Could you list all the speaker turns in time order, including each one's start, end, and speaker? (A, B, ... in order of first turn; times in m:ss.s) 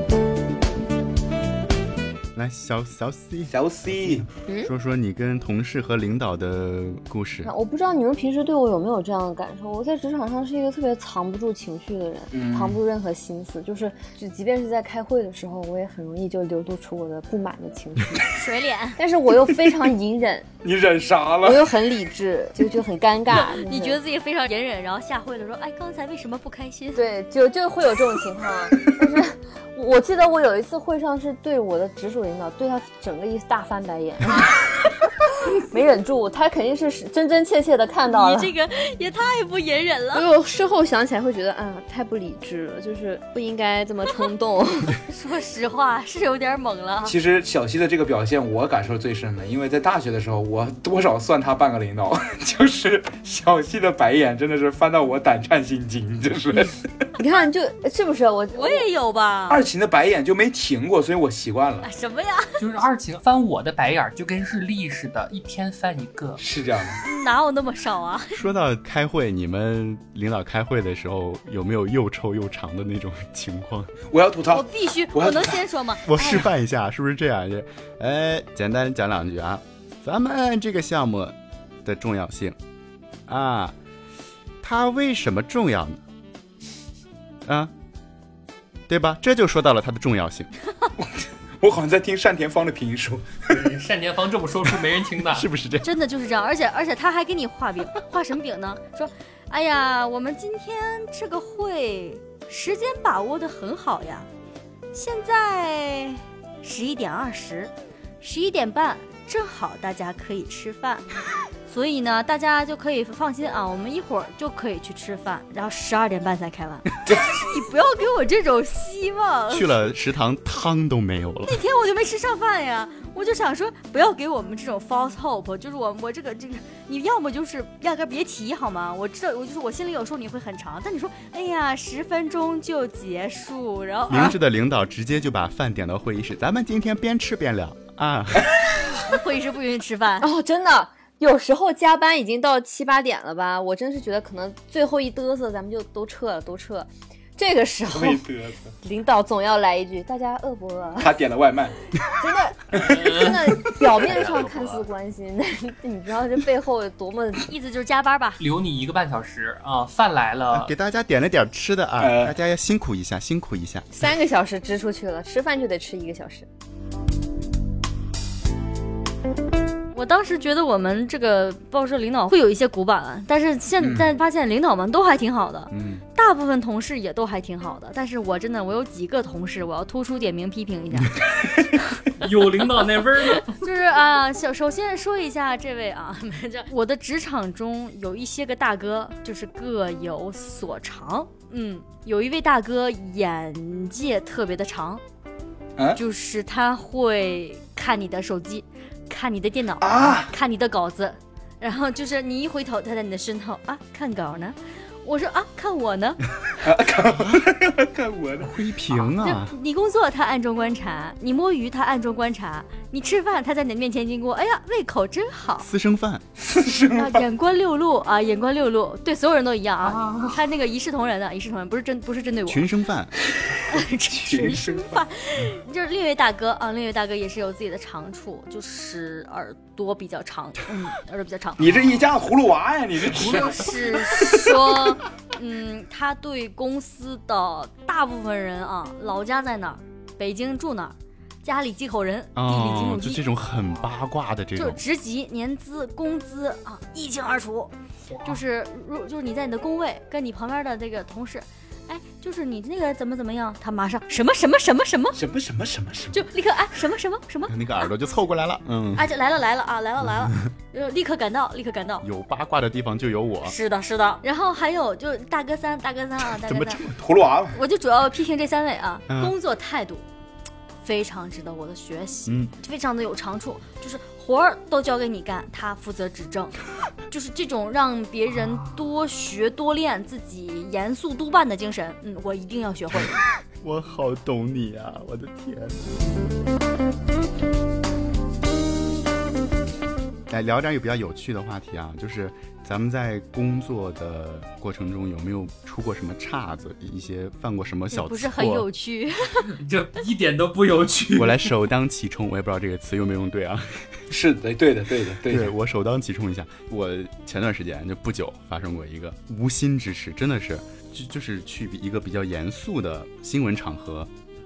0:02.3-0:07.5 A
0:03.5-0:04.3 B
0:04.5-0:04.7 C
0:07.4-0:18.3 C
0:12.3-0:12.8 B
0:18.3-0:19.0 D
0:19.0-0:20.5 C
0:20.6-0:21.7 B
0:21.4-0:24.0 C
0:23.3-0:27.0 D
0:26.9-0:34.6 C
0:35.5-0:38.5 C
0:38.1-0:40.3 D
0:40.1-0:45.0 C
0:45.1-0:47.2 D
0:47.0-0:56.9 B
0:57.2-0:58.8 C
0:58.5-0:59.6 D
0:59.5-1:01.9 B
1:01.8-1:02.6 D
1:02.6-1:06.4 E
1:06.4-1:07.0 B
1:07.0-1:08.4 D
1:08.3-1:13.9 A
1:14.1-1:15.6 B
1:14.5-1:16.4 D
1:16.0-1:22.6 A
1:23.3-1:23.8 A
1:24.6-1:26.0 A
1:27.4-1:27.7 A
1:28.9-1:30.5 A
1:31.0-1:33.6 B
1:33.5-1:35.5 E
1:35.2-1:35.9 A
1:35.8-1:44.3 D
1:44.9-1:51.1 D
1:51.6-1:59.7 D
1:57.0-1:57.4 B
1:59.5-2:01.6 A
2:01.4-2:14.4 D
2:14.1-2:18.6 A
2:19.0-2:20.3 D
2:20.2-2:28.2 C
2:27.9-2:28.7 B
2:28.8-2:31.2 C
2:31.0-2:31.7 B
2:32.0-2:37.5 C
2:32.7-2:33.1 B
2:32.8-2:34.9 E
2:37.5-2:38.4 D
2:38.4-2:40.7 E
2:40.5-2:43.9 A
2:42.0-2:42.4 B
2:43.9-2:46.5 C
2:49.9-3:01.2 D
2:53.8-2:54.1 B
2:55.7-2:56.0 A
3:02.2-3:03.6 E
3:03.4-3:15.0 D
3:16.0-3:26.2 D
3:19.8-3:20.3 B
3:26.6-3:28.5 B
3:27.1-3:27.4 A
3:28.4-3:29.5 A
3:29.0-3:35.7 D
3:35.6-3:36.2 A
3:36.4-3:37.2 B
3:36.9-3:42.6 D
3:39.8-3:40.4 E
3:42.5-3:43.1 A
3:43.6-3:51.6 D
3:43.8-3:45.5 B
3:51.6-3:54.5 B
3:53.1-4:03.2 D
4:02.3-4:04.8 A
4:04.6-4:07.7 D
4:08.1-4:08.4 E
4:08.2-4:15.2 D
4:15.1-4:16.2 B
4:16.1-4:17.5 D
4:17.5-4:19.0 A
4:19.0-4:22.0 D
4:22.0-4:23.5 A
4:23.4-4:26.8 D
4:26.3-4:27.0 A
4:27.0-4:27.6 B
4:27.5-4:30.0 D
4:29.1-4:29.3 A
4:30.8-4:36.6 D
4:32.3-4:32.5 A
4:37.1-4:43.2 D
4:38.3-4:38.8 E
4:43.6-4:45.9 A
4:50.3-4:58.7 A
4:57.9-4:59.5 D
4:59.5-5:01.5 E
5:01.1-5:04.0 A
5:04.1-5:05.5 B
5:05.3-5:14.1 A